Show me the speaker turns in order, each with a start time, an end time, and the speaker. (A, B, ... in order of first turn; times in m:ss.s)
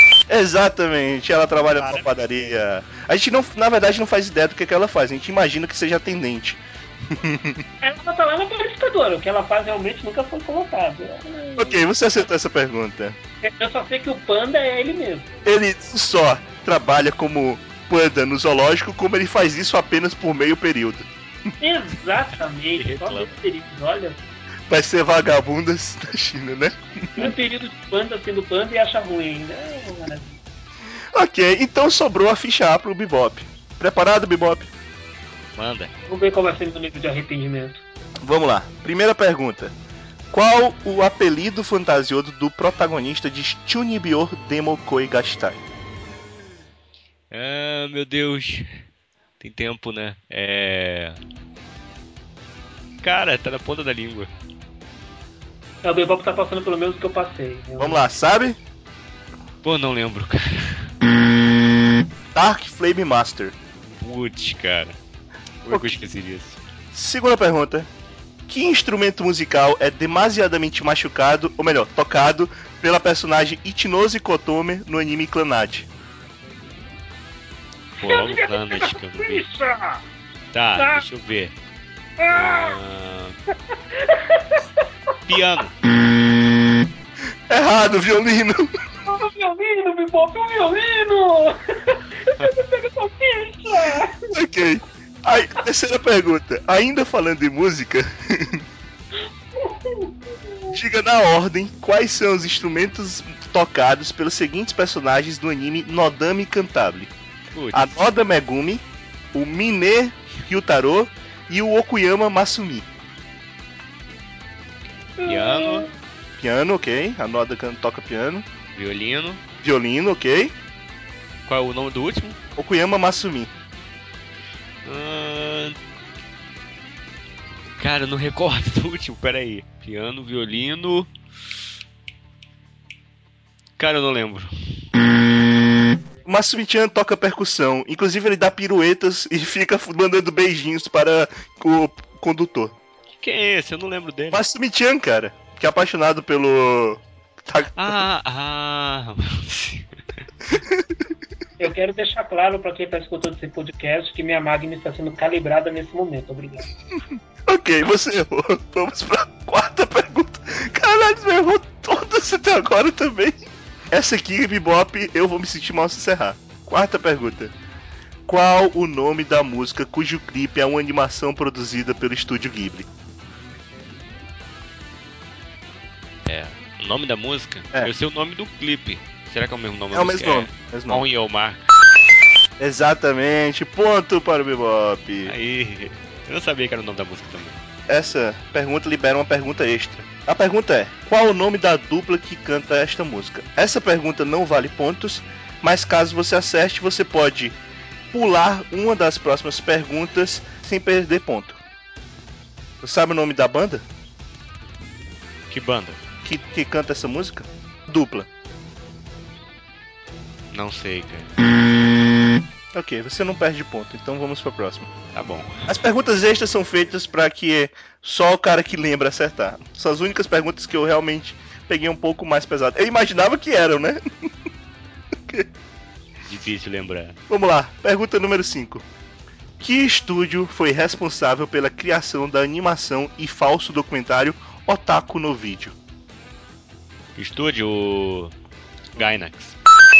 0:00.3-0:07.6 A
0:01.8-0:02.4 B
0:07.8-0:11.8 C
0:11.6-0:13.2 A
0:13.4-0:15.3 C
0:15.4-0:21.1 A
0:21.6-0:24.2 C
0:22.8-0:23.3 B
0:24.7-0:26.8 A
0:27.2-0:30.4 C
0:31.2-0:34.7 A
0:35.6-0:35.9 B
0:36.1-0:37.8 C
0:38.2-0:39.8 A
0:40.3-0:45.6 A
0:47.3-0:48.7 B
0:49.4-0:51.2 B
0:53.0-0:54.3 B
0:55.8-0:58.0 C
0:57.8-0:58.6 A
0:59.6-1:00.9 B
1:02.3-1:03.6 A
1:03.9-1:05.0 B
1:05.6-1:06.6 B
1:05.7-1:06.0 A
1:06.9-1:07.9 A
1:08.5-1:15.9 A
1:18.0-1:20.0 C
1:18.0-1:19.4 B
1:20.5-1:21.5 B
1:20.8-1:21.0 C
1:22.2-1:22.8 C
1:22.3-1:23.4 B
1:23.7-1:24.6 C
1:25.3-1:25.8 B
1:27.5-1:28.7 A
1:29.0-1:34.3 C
1:34.3-1:38.6 A
1:39.6-1:40.8 C
1:40.7-1:47.1 A
1:47.5-1:48.0 B
1:47.7-1:52.9 A
1:55.2-1:55.9 C
1:55.2-1:55.9 B
1:56.4-1:58.5 A
1:58.8-1:59.4 B
1:59.6-2:00.5 A
2:01.5-2:02.4 B
2:02.6-2:03.5 A
2:04.8-2:05.8 B
2:07.8-2:11.1 B
2:13.8-2:14.8 B
2:16.3-2:22.8 A
2:23.2-2:24.4 B
2:24.3-2:28.0 A
2:27.8-2:30.0 B
2:30.5-2:31.0 A
2:31.6-2:36.7 C
2:37.5-2:47.5 A
2:48.3-2:52.9 A
2:56.3-3:01.7 B
2:59.9-3:01.0 A
3:02.6-3:05.3 A
3:05.3-3:07.6 B
3:07.9-3:17.6 A
3:18.1-3:21.6 A
3:22.8-3:23.8 A
3:25.5-3:26.0 B
3:26.2-3:28.3 A
3:30.5-3:31.3 B
3:32.7-3:34.9 A
3:35.1-3:35.7 B
3:35.7-3:44.0 A
3:46.3-3:47.2 B
3:47.3-3:48.8 A
3:49.6-3:55.8 A
3:57.2-3:58.3 B
3:59.0-3:59.6 B